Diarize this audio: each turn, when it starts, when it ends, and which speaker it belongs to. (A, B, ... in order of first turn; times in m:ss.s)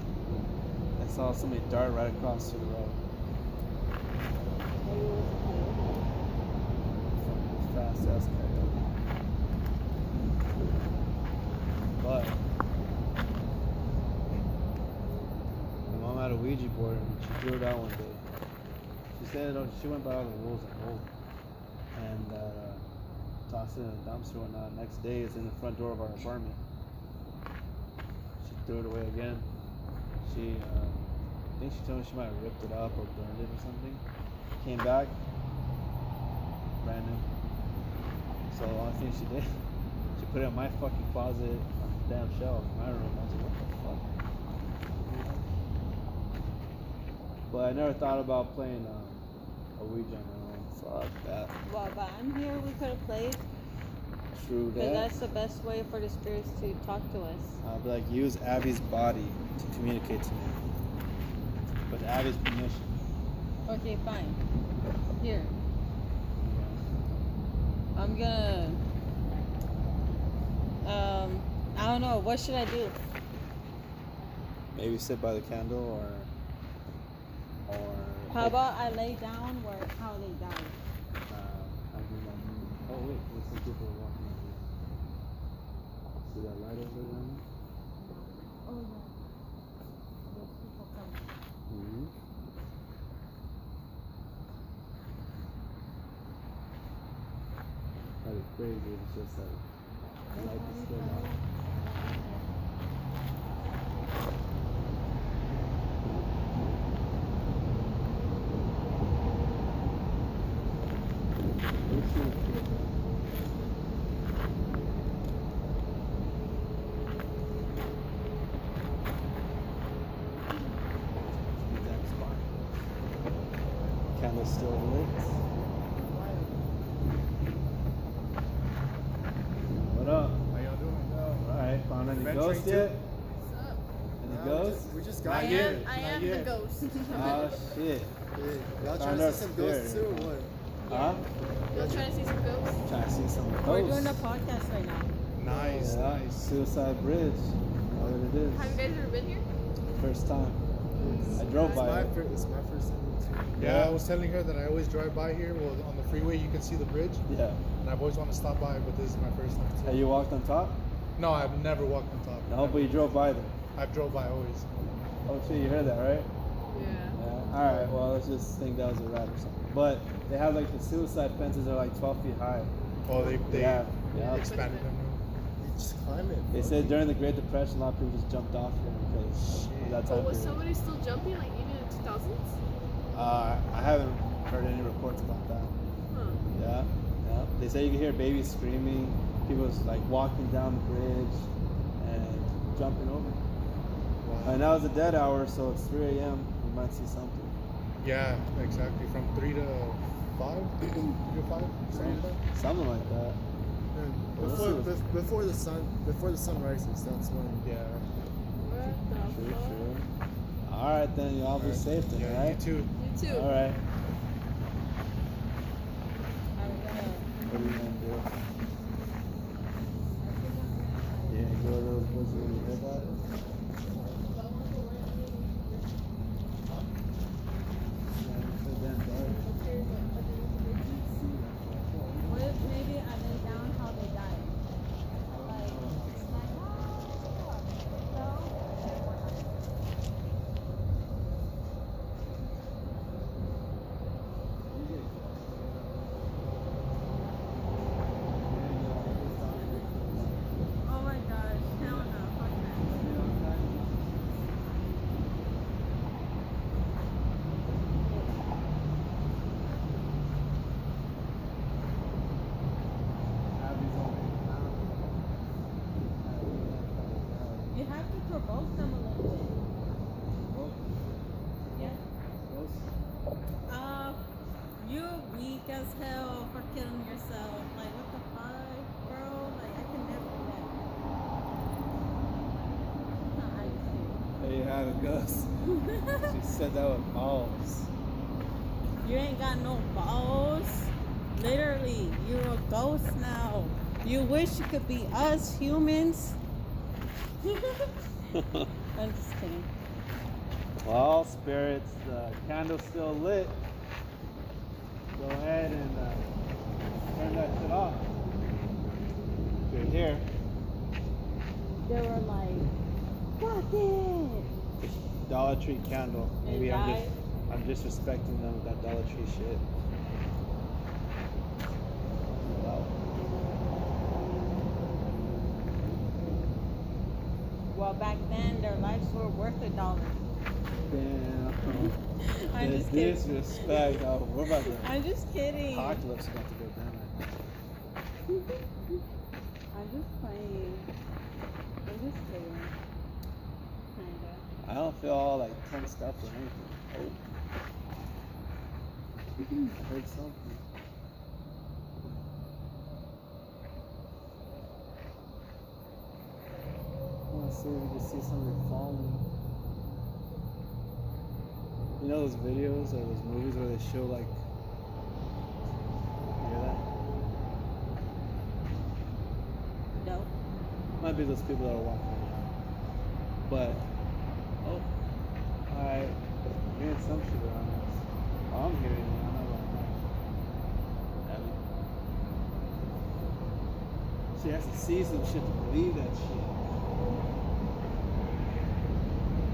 0:01.0-0:03.0 A
0:04.8-0:05.9 B
0:07.2-0:08.9 A
0:11.9-0:12.4 A
0:15.9-0:18.2 A
0:19.2-0:21.1 A
0:21.9-0:22.8 A
0:23.5-0:26.6 A
0:28.4-0:29.5 A
0:30.2-0:34.0 A
0:34.6-0:35.2 A
0:36.8-0:37.2 A
0:38.5-0:39.5 A
0:40.2-0:44.2 A
0:45.0-0:45.4 A
0:47.5-0:49.2 A
0:49.8-0:51.5 A
0:51.6-0:53.4 B
0:54.3-0:55.1 A
0:54.7-0:57.6 B
0:57.6-1:00.6 A
1:01.9-1:03.0 A
1:03.6-1:04.4 B
1:05.1-1:05.5 B
1:06.4-1:06.8 A
1:07.9-1:08.8 B
1:10.8-1:13.0 B
1:14.7-1:16.3 A
1:17.6-1:18.6 A
1:18.3-1:20.8 B
1:21.3-1:24.6 A
1:26.2-1:27.4 A
1:28.0-1:29.1 B
1:30.3-1:31.3 B
1:31.7-1:32.1 A
1:38.2-1:39.6 A
1:40.3-1:42.4 B
1:40.3-1:41.3 A
1:51.8-1:52.7 A
2:01.6-2:02.5 A
2:04.1-2:05.3 A
2:06.0-2:06.5 C
2:09.8-2:10.4 A
2:10.5-2:11.5 D
2:11.4-2:13.0 A
2:12.2-2:13.0 D
2:12.4-2:12.8 E
2:13.3-2:13.8 C
2:14.2-2:15.9 A
2:14.2-2:16.1 E
2:15.3-2:17.6 C
2:15.3-2:17.4 B
2:15.9-2:16.5 D
2:17.1-2:18.2 A
2:18.3-2:20.5 E
2:18.9-2:20.4 A
2:20.9-2:21.2 B
2:20.9-2:21.2 A
2:21.7-2:22.9 C
2:21.7-2:22.1 E
2:22.8-2:24.2 A
2:23.6-2:25.1 B
2:25.4-2:26.2 D
2:25.4-2:26.2 E
2:25.8-2:28.7 A
2:28.5-2:29.4 C
2:28.6-2:28.9 B
2:30.0-2:30.6 A
2:30.9-2:31.5 C
2:31.2-2:33.6 E
2:31.4-2:32.1 A
2:33.6-2:34.0 A
2:33.6-2:37.2 D
2:37.3-2:37.6 A
2:37.8-2:40.0 D
2:39.8-2:40.8 A
2:41.2-2:43.0 D
2:42.5-2:43.5 A
2:43.7-2:44.7 D
2:45.2-2:46.3 A
2:46.7-2:47.2 C
2:47.1-2:52.7 A
2:53.0-2:55.2 D
2:53.5-2:54.5 A
2:54.1-2:54.9 C
2:55.6-2:57.0 E
2:56.5-3:00.6 A
2:59.4-3:00.0 E
3:00.0-3:02.6 C
3:03.1-3:05.8 A
3:06.1-3:06.5 C
3:06.5-3:13.4 A
3:14.2-3:14.6 E
3:14.2-3:14.5 D
3:14.4-3:17.6 A
3:18.0-3:22.4 D
3:21.9-3:23.4 A
3:22.0-3:22.2 E
3:23.9-3:24.5 D
3:23.9-3:28.0 E
3:24.4-3:25.0 A
3:27.6-3:28.0 D
3:28.6-3:30.0 C
3:29.3-3:30.1 A
3:30.6-3:32.6 A
3:31.6-3:32.9 D
3:33.0-3:33.5 C
3:33.3-3:33.8 A
3:36.5-3:37.3 B
3:37.4-3:38.3 A
3:40.2-3:41.6 B
3:41.3-3:43.1 A
3:44.2-3:45.8 C
3:48.2-3:49.4 A
3:49.2-3:51.3 C
3:51.6-3:51.9 A
3:52.2-3:54.5 B
3:53.3-3:53.6 C
3:55.3-3:56.5 A
3:55.4-3:59.6 B
4:04.7-4:05.8 A
4:08.4-4:10.6 A
4:10.8-4:13.0 B
4:11.8-4:12.2 A
4:12.8-4:14.5 A
4:23.5-4:24.9 A
4:26.2-4:27.8 A
4:27.7-4:29.6 B
4:30.2-4:30.9 A
4:31.7-4:32.0 B
4:31.8-4:32.9 A
4:33.7-4:40.8 B
4:43.2-4:44.3 B
4:44.3-4:45.5 A
4:45.7-4:46.3 B
4:46.2-4:47.9 A
4:49.0-4:56.4 B
4:57.5-4:57.9 B
4:58.3-4:58.7 A
4:58.9-4:59.7 B
5:00.8-5:03.6 A
5:05.1-5:06.3 A
5:07.0-5:08.1 A
5:09.6-5:10.2 A
5:11.8-5:12.7 B
5:13.4-5:14.5 B
5:15.2-5:19.7 A
5:16.4-5:17.1 B
5:22.4-5:23.0 A
5:27.7-5:30.2 B
5:30.9-5:32.0 A
5:32.2-5:33.9 B
5:32.5-5:34.9 A
5:34.6-5:36.0 B
5:35.7-5:37.4 A
5:39.7-5:40.9 B
5:41.8-5:42.7 B
5:43.9-5:44.4 B
5:44.6-5:47.2 A
5:49.8-5:50.6 A
5:57.3-5:59.3 A
6:02.0-6:04.4 A
6:06.4-6:06.8 A
6:10.0-6:10.3 B
6:11.0-6:12.5 A
6:13.5-6:13.9 A
6:14.6-6:14.9 A
6:15.7-6:16.2 A
6:16.7-6:20.0 A
6:21.2-6:21.6 A
6:24.4-6:26.6 A